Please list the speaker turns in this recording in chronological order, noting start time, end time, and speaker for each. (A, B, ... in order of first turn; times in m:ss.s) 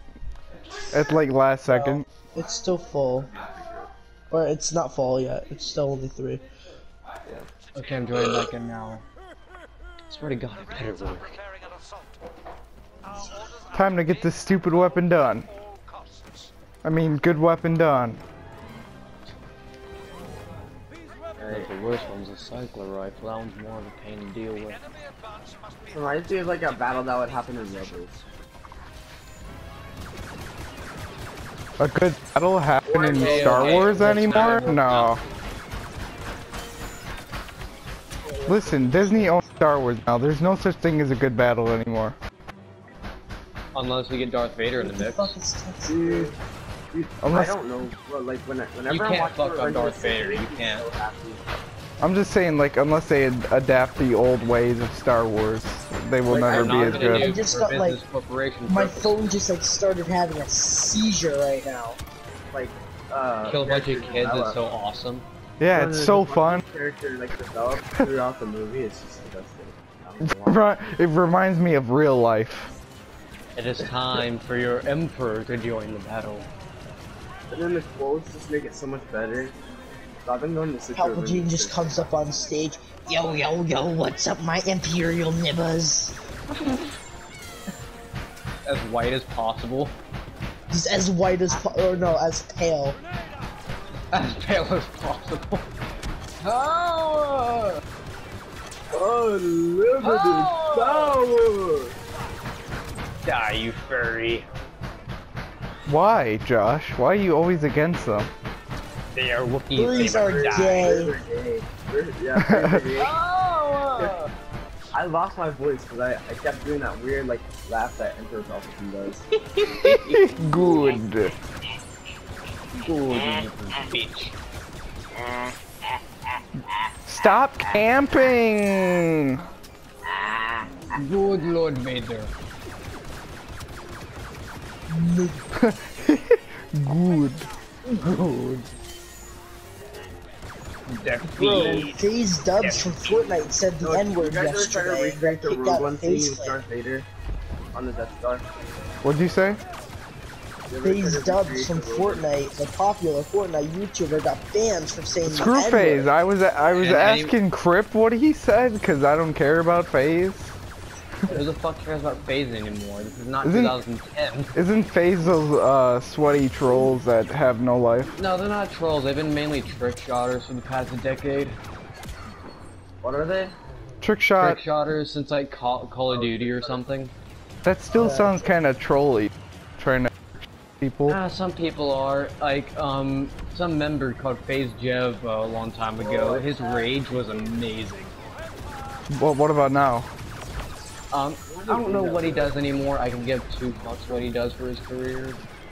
0:00.9-0:02.1 A
0:01.7-0:03.3 B
0:04.3-0:06.4 B
0:07.8-0:09.0 C
0:10.1-0:11.4 C
0:13.7-0:15.5 A
0:16.8-0:18.2 A
0:21.4-0:24.8 C
0:25.9-0:28.2 D
0:31.8-0:35.2 A
0:32.9-0:34.6 D
0:33.0-0:35.2 C
0:38.2-0:39.4 B
0:38.5-0:42.2 A
0:43.7-0:45.3 C
0:44.8-0:46.4 B
0:45.9-0:46.3 D
0:46.9-0:51.4 D
0:47.2-0:47.6 A
0:48.9-0:50.9 C
0:52.0-0:57.4 A
0:56.3-0:57.3 D
0:56.5-0:59.2 C
0:57.0-0:58.0 B
0:58.7-1:02.0 B
1:02.5-1:04.6 D
1:03.5-1:05.2 C
1:05.6-1:06.6 A
1:05.7-1:10.6 D
1:10.2-1:12.7 A
1:13.6-1:16.5 C
1:17.5-1:19.5 D
1:20.2-1:22.0 D
1:21.0-1:26.2 B
1:26.6-1:26.9 C
1:28.6-1:30.0 C
1:30.7-1:33.0 B
1:34.1-1:35.7 C
1:36.4-1:37.8 C
1:38.9-1:41.9 D
1:40.0-1:41.2 C
1:43.3-1:44.5 C
1:45.9-1:48.3 A
1:49.1-1:50.9 C
1:49.8-1:51.2 B
1:49.9-1:53.1 D
1:52.4-1:52.8 A
1:53.0-1:54.3 C
1:54.9-1:59.2 D
1:59.4-2:00.2 C
1:59.7-2:01.4 A
2:02.8-2:04.3 C
2:03.2-2:03.9 D
2:05.2-2:06.9 D
2:07.1-2:09.4 A
2:10.0-2:10.7 D
2:10.9-2:12.3 C
2:14.9-2:15.4 B
2:15.5-2:17.5 A
2:20.9-2:23.4 C
2:21.4-2:21.9 D
2:21.4-2:26.6 B
2:23.8-2:27.1 D
2:27.7-2:28.4 D
2:29.0-2:29.6 A
2:30.7-2:32.3 D
2:30.8-2:36.1 B
2:35.2-2:40.6 A
2:36.7-2:37.3 C
2:41.3-2:44.5 C
2:43.4-2:43.8 A
2:44.6-2:48.2 A
2:48.2-2:51.6 C
2:53.0-2:53.5 D
2:54.0-2:54.6 A
2:54.4-2:57.1 C
2:56.1-2:56.8 D
2:57.6-3:00.2 A
2:58.0-2:58.5 B
3:00.8-3:01.2 A
3:01.1-3:08.2 C
3:06.0-3:06.8 D
3:09.1-3:10.1 A
3:11.1-3:15.4 C
3:11.5-3:12.5 D